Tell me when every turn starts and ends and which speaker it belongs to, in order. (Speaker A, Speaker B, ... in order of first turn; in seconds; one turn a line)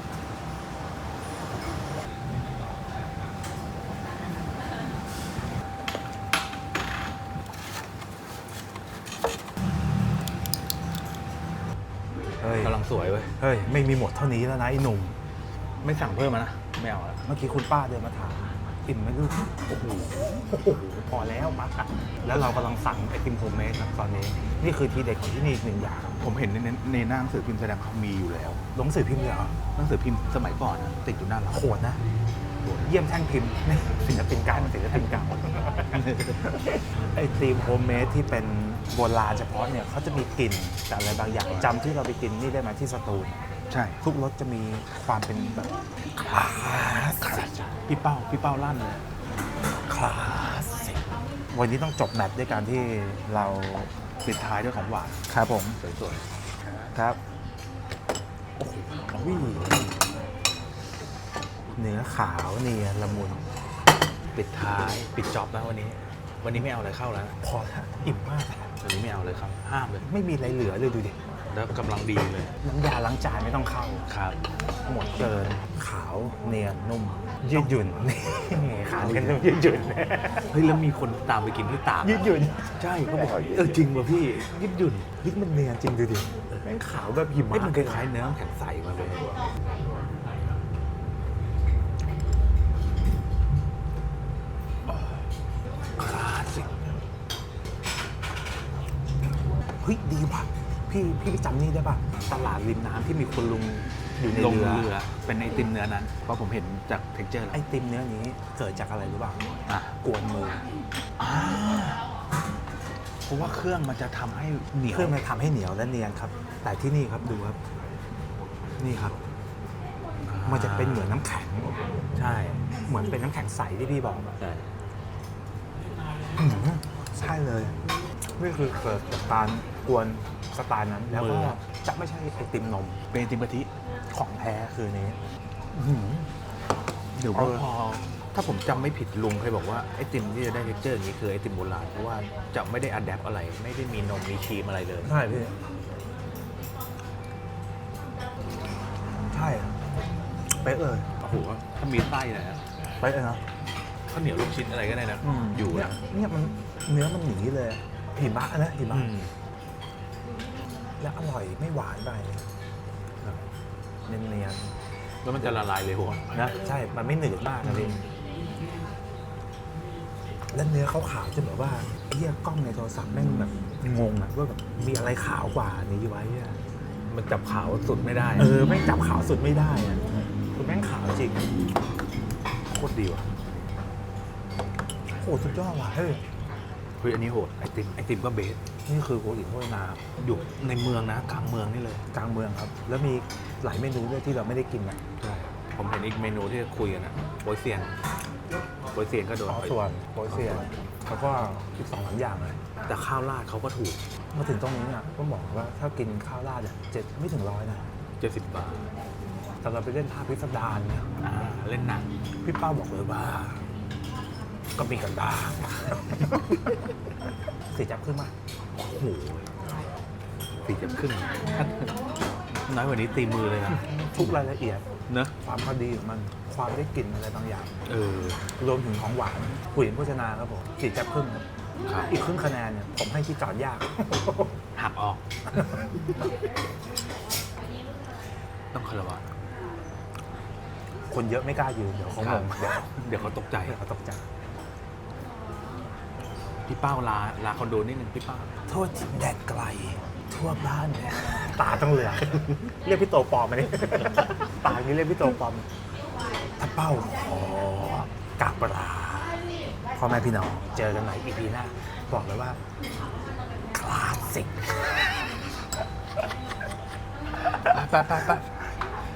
Speaker A: 12.4-12.8
Speaker B: 12.6-13.3
Speaker A: 13.4-15.2
Speaker B: 15.8-17.2
Speaker A: 17.2-26.2
Speaker B: 26.2-28.6
Speaker A: 28.7-29.6
Speaker B: 29.7-31.6
Speaker A: 31.5-32.0
Speaker B: 32.6-32.9
Speaker A: 32.8-43.4
Speaker B: 34.5-35.3
Speaker B: 35.9-36.4
Speaker B: 41.5-41.7
Speaker B: 43.7-44.0
Speaker A: 44.0-47.8
Speaker B: 46.3-49.1
Speaker A: 49.8-53.9
Speaker B: 54.2-55.2
Speaker A: 55.3-55.8
Speaker B: 55.8-56.9
Speaker A: 56.9-57.2
Speaker A: 58.6-60.0
Speaker A: 61.7-63.5
Speaker B: 64.3-67.3
Speaker A: 67.4-68.7
Speaker B: 68.8-70.0
Speaker A: 70.0-71.2
Speaker B: 71.5-72.5
Speaker A: 72.6-74.0
Speaker B: 74.1-74.4
Speaker A: 74.8-80.5
Speaker B: 79.0-79.5
Speaker B: 80.5-85.1
Speaker A: 82.0-83.7
Speaker A: 85.2-88.1
Speaker B: 87.5-89.5
Speaker B: 94.9-95.2
Speaker B: 96.0-96.8
Speaker A: 99.8-104.9
Speaker B: 104.3-107.6
Speaker A: 107.5-109.5
Speaker B: 109.7-110.0
Speaker A: 110.0-110.7
Speaker B: 111.2-112.1
Speaker B: 113.2-115.2
Speaker A: 114.9-117.6
Speaker A: 118.8-119.2
Speaker B: 120.2-121.2
Speaker A: 120.5-121.8
Speaker B: 122.1-122.6
Speaker A: 122.9-124.3
Speaker B: 124.4-124.7
Speaker A: 126.3-127.8
Speaker A: 128.3-133.0
Speaker B: 131.1-131.6
Speaker B: 133.1-133.7
Speaker A: 134.1-135.2
Speaker A: 135.7-136.3
Speaker B: 137.1-145.1
Speaker A: 137.3-137.6
Speaker A: 145.0-145.5
Speaker A: 149.3-149.8
Speaker A: 150.5-151.1
Speaker B: 151.2-152.6
Speaker A: 153.0-153.4
Speaker B: 154.1-156.0
Speaker A: 155.2-159.1
Speaker B: 158.9-159.3
Speaker A: 161.0-162.5
Speaker A: 164.1-164.7
Speaker B: 165.1-166.3
Speaker A: 166.3-168.0
Speaker B: 167.6-168.0
Speaker A: 170.5-176.6
Speaker B: 177.1-178.6
Speaker A: 178.4-180.0
Speaker A: 180.5-181.4
Speaker B: 182.7-183.3
Speaker A: 185.1-186.2
Speaker B: 185.2-185.5
Speaker B: 187.0-188.6
Speaker A: 188.9-190.0
Speaker B: 190.2-192.1
Speaker A: 192.1-195.0
Speaker B: 195.2-197.9
Speaker B: 198.9-199.8
Speaker A: 199.5-202.6
Speaker B: 200.3-200.7
Speaker B: 202.8-204.0
Speaker A: 204.3-207.9
Speaker B: 208.2-208.9
Speaker A: 209.6-211.1
Speaker B: 211.2-212.1
Speaker A: 212.4-213.6
Speaker A: 214.8-216.6
Speaker A: 217.7-218.3
Speaker B: 218.7-219.5
Speaker B: 220.6-221.9
Speaker B: 222.6-224.4
Speaker A: 223.7-224.8
Speaker B: 225.1-225.3
Speaker A: 225.4-227.8
Speaker B: 227.8-228.4
Speaker A: 228.6-231.4
Speaker B: 231.8-232.1
Speaker A: 232.1-234.6
Speaker B: 234.7-235.2
Speaker B: 238.7-239.2
Speaker A: 241.1-242.9
Speaker B: 242.2-243.8
Speaker A: 243.6-244.2
Speaker B: 246.7-248.5
Speaker A: 248.7-255.7
Speaker A: 256.6-259.4
Speaker A: 259.9-262.6
Speaker A: 263.7-264.8
Speaker B: 267.5-268.6